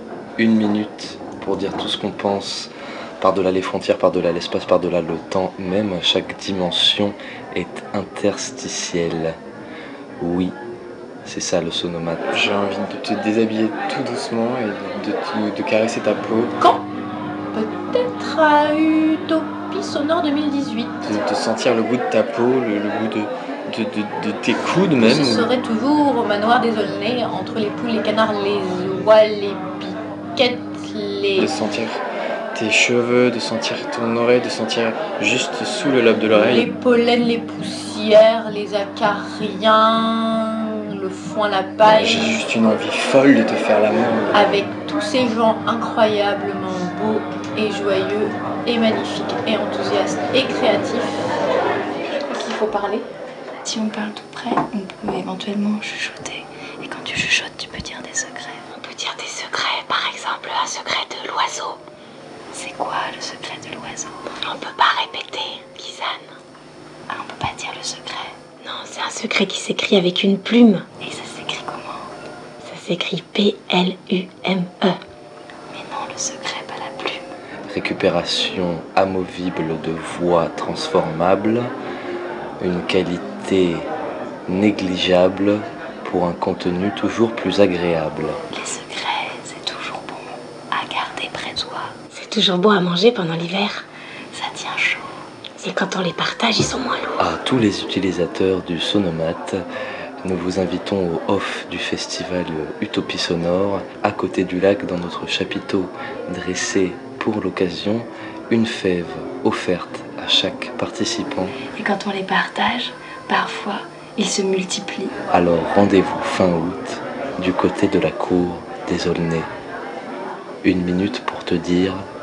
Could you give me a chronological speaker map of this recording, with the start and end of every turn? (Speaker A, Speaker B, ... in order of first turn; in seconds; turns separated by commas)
Speaker A: 0.4-9.4, Speaker A: 10.2-10.5, Speaker A: 11.3-12.3, Speaker B: 12.3-16.6, Speaker C: 17.5-21.0, Speaker B: 21.0-25.5, Speaker C: 25.0-31.5, Speaker B: 31.4-32.0, Speaker B: 32.5-36.7, Speaker C: 36.4-42.4, Speaker B: 41.9-44.5, Speaker C: 44.3-51.3, Speaker D: 52.2-53.1, Speaker D: 53.6-58.6, Speaker E: 58.8-61.8, Speaker D: 62.5-64.3, Speaker E: 64.4-66.3, Speaker D: 67.1-68.3, Speaker E: 68.6-70.9, Speaker D: 71.0-72.0, Speaker E: 72.7-75.0, Speaker D: 75.7-77.2, Speaker A: 77.7-81.7, Speaker A: 82.6-83.9, Speaker A: 84.5-88.4, Speaker D: 88.5-91.9, Speaker E: 92.1-93.9, Speaker D: 94.3-95.1, Speaker E: 95.6-97.2, Speaker A: 97.2-99.6, Speaker A: 100.2-111.6, Speaker D: 111.7-115.1, Speaker A: 115.3-119.5, Speaker A: 120.6-122.0